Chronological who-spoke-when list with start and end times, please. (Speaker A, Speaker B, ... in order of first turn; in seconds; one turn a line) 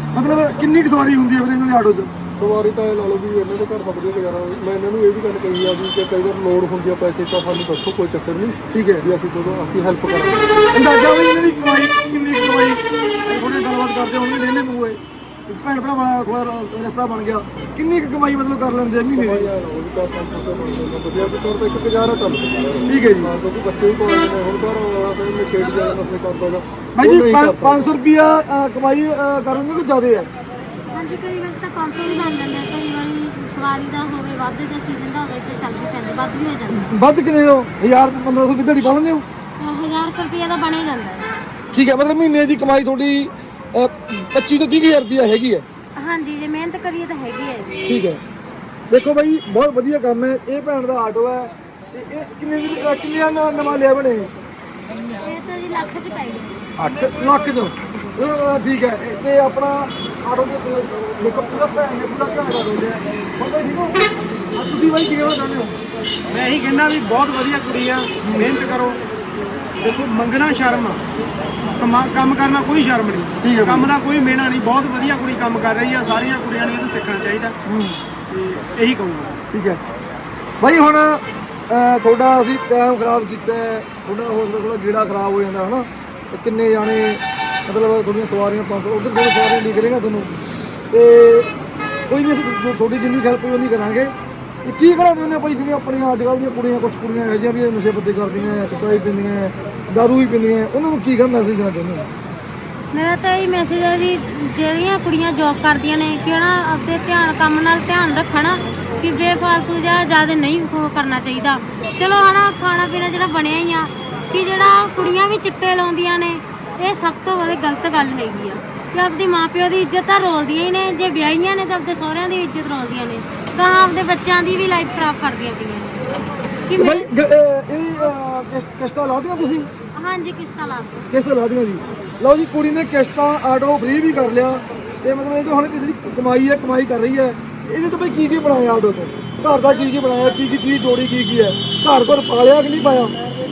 Speaker A: 0.1-2.1
Speaker B: 2.4-10.6
Speaker A: 8.7-9.1
Speaker A: 10.7-19.5
Speaker B: 19.1-27.8
Speaker A: 22.9-23.3
Speaker A: 27.0-30.3
Speaker C: 30.9-37.0
Speaker A: 36.7-39.2
Speaker C: 39.6-41.3
Speaker A: 41.7-45.6
Speaker C: 46.0-47.8
Speaker A: 47.9-48.2
Speaker A: 48.9-54.3
Speaker C: 55.2-56.6
Speaker A: 56.8-65.8
Speaker D: 66.3-69.0
Speaker A: 68.2-68.5
Speaker D: 69.8-71.0
Speaker D: 71.8-77.6
Speaker A: 73.4-73.9
Speaker A: 77.7-78.0
Speaker D: 78.3-79.4
Speaker A: 79.5-79.8
Speaker A: 80.6-90.3
Speaker A: 90.9-91.5
Speaker A: 92.1-94.1
Speaker A: 94.7-102.1
Speaker C: 102.9-126.0
Speaker C: 126.7-127.1
Speaker A: 126.8-129.7
Speaker C: 130.0-131.1
Speaker A: 131.1-143.1